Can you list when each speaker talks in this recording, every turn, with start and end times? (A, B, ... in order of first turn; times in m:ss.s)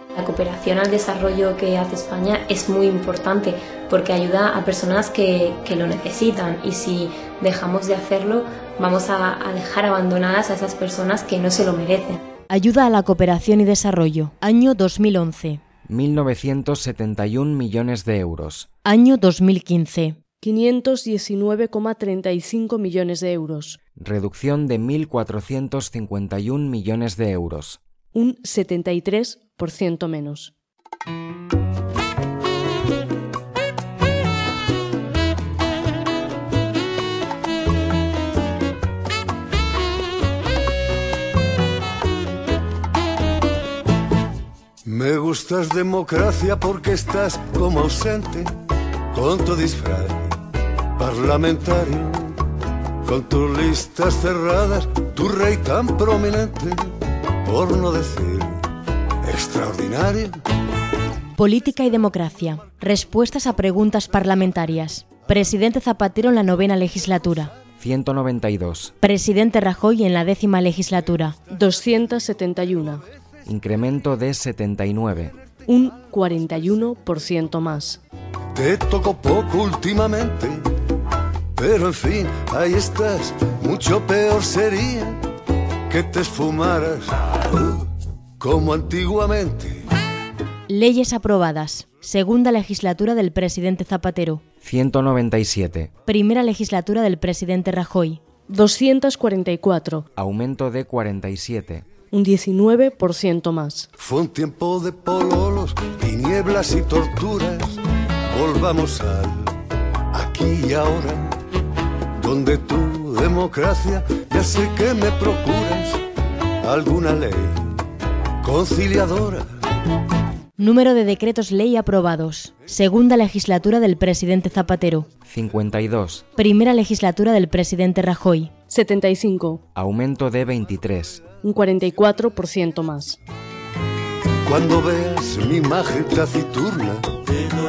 0:00.2-0:12.2 A
0:12.5-0:15.6 B
0:15.9-0:18.7 C
0:18.8-0:20.2 B
0:20.4-0:23.8 D
0:24.0-0:27.8 C
0:28.1-0:30.5 D
0:44.8-0:48.5 E
0:49.1-0:50.4 E
0:51.0-0:52.4 E
0:53.0-0:58.6 E
0:59.2-1:00.4 E
1:01.4-1:07.5 B
1:07.8-1:08.9 C
1:09.0-1:11.4 B
1:11.5-1:13.0 D
1:13.4-1:15.3 C
1:15.7-1:18.0 D
1:18.5-1:20.6 E
1:21.6-1:25.2 E
1:25.9-1:27.2 E
1:28.4-1:29.8 E
1:30.7-1:34.4 B
1:34.6-1:35.9 C
1:36.0-1:38.2 B
1:38.5-1:40.0 D
1:40.2-1:41.9 C
1:42.1-1:43.9 D
1:44.0-1:49.6 E
1:50.1-1:51.4 E
1:52.2-1:56.0 E
1:56.6-1:57.6 E
1:58.4-1:59.4 E
2:00.6-2:05.1 B
2:05.2-2:06.2 C
2:06.4-2:08.5 B
2:08.7-2:09.6 D
2:09.7-2:11.2 C
2:11.4-2:13.2 D
2:14.4-2:17.1 E